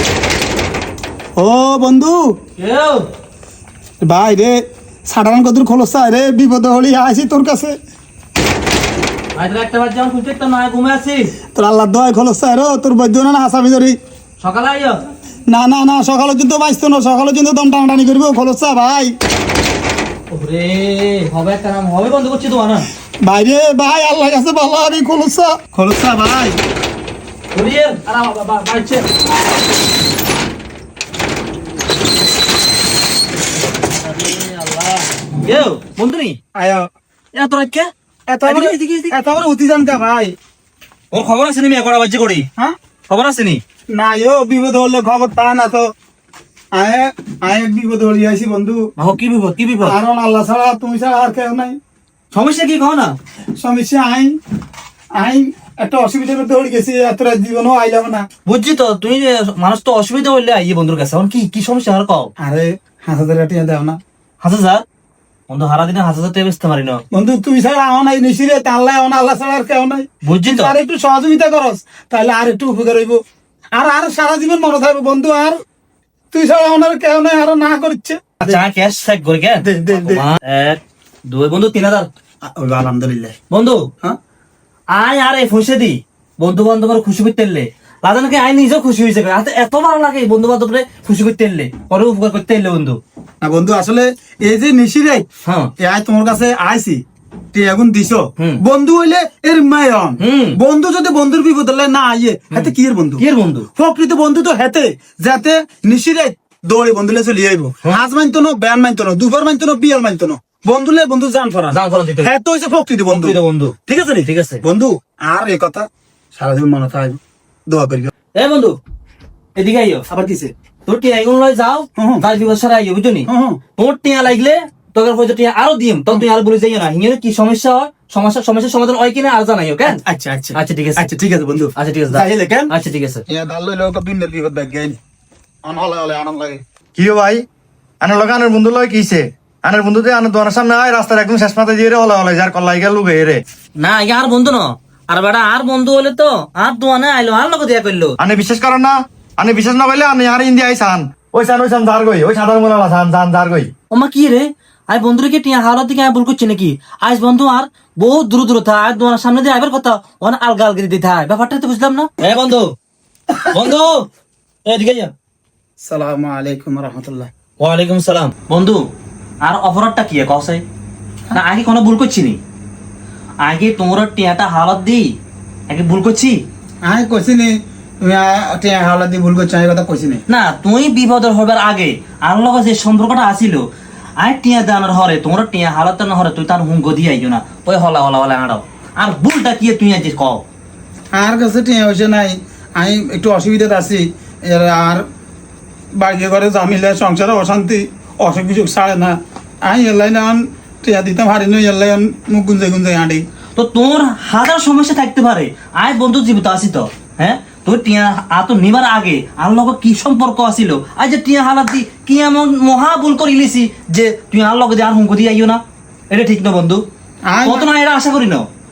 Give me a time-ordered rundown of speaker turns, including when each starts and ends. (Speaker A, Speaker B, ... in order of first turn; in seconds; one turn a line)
Speaker A: 1.4-2.4
Speaker B: 2.6-3.1
Speaker A: 4.0-7.8
Speaker B: 9.3-11.3
Speaker A: 11.5-14.0
Speaker B: 14.4-15.0
Speaker A: 15.5-19.1
Speaker B: 20.3-22.9
Speaker A: 23.2-26.6
Speaker B: 27.5-29.0
Speaker B: 34.0-36.4
Speaker A: 36.5-36.9
Speaker B: 37.3-37.9
Speaker A: 38.3-40.4
Speaker B: 38.5-39.1
Speaker B: 41.1-42.5
Speaker B: 43.1-43.6
Speaker A: 43.9-45.9
Speaker A: 46.7-48.9
Speaker B: 49.0-50.0
Speaker A: 49.8-51.8
Speaker B: 52.3-53.2
Speaker A: 53.6-54.4
Speaker A: 55.1-58.3
Speaker B: 58.5-62.3
Speaker A: 62.4-64.0
Speaker B: 64.4-64.8
Speaker B: 65.5-67.0
Speaker A: 67.1-73.2
Speaker B: 70.2-70.7
Speaker A: 73.7-75.6
Speaker A: 76.3-78.6
Speaker B: 78.4-82.1
Speaker A: 79.6-80.2
Speaker A: 82.4-83.3
Speaker B: 83.5-83.9
Speaker B: 84.9-93.0
Speaker A: 93.4-95.2
Speaker B: 95.4-95.7
Speaker A: 95.8-103.2
Speaker B: 100.2-100.6
Speaker B: 102.5-103.7
Speaker A: 103.7-118.1
Speaker B: 111.7-112.3
Speaker B: 113.1-114.6
Speaker B: 118.3-118.8
Speaker B: 119.5-120.0
Speaker A: 120.1-120.5
Speaker B: 120.9-130.0
Speaker A: 122.0-122.2
Speaker A: 123.2-123.6
Speaker A: 129.8-132.7
Speaker B: 130.5-131.1
Speaker B: 131.8-133.2
Speaker A: 133.3-135.0
Speaker A: 135.6-136.6
Speaker C: 136.9-137.4
Speaker C: 138.0-143.4
Speaker B: 143.8-148.2
Speaker C: 148.2-153.7
Speaker B: 153.9-162.7
Speaker B: 163.5-164.1
Speaker B: 164.7-165.1
Speaker A: 165.8-167.3
Speaker B: 167.6-168.9
Speaker B: 169.4-170.6
Speaker B: 171.3-172.4
Speaker B: 173.4-175.2
Speaker B: 175.7-176.4
Speaker A: 176.8-180.2
Speaker B: 180.3-183.7
Speaker B: 184.2-190.4
Speaker A: 191.1-195.0
Speaker A: 195.9-203.2
Speaker B: 203.6-216.8
Speaker A: 217.3-217.7
Speaker B: 217.4-218.5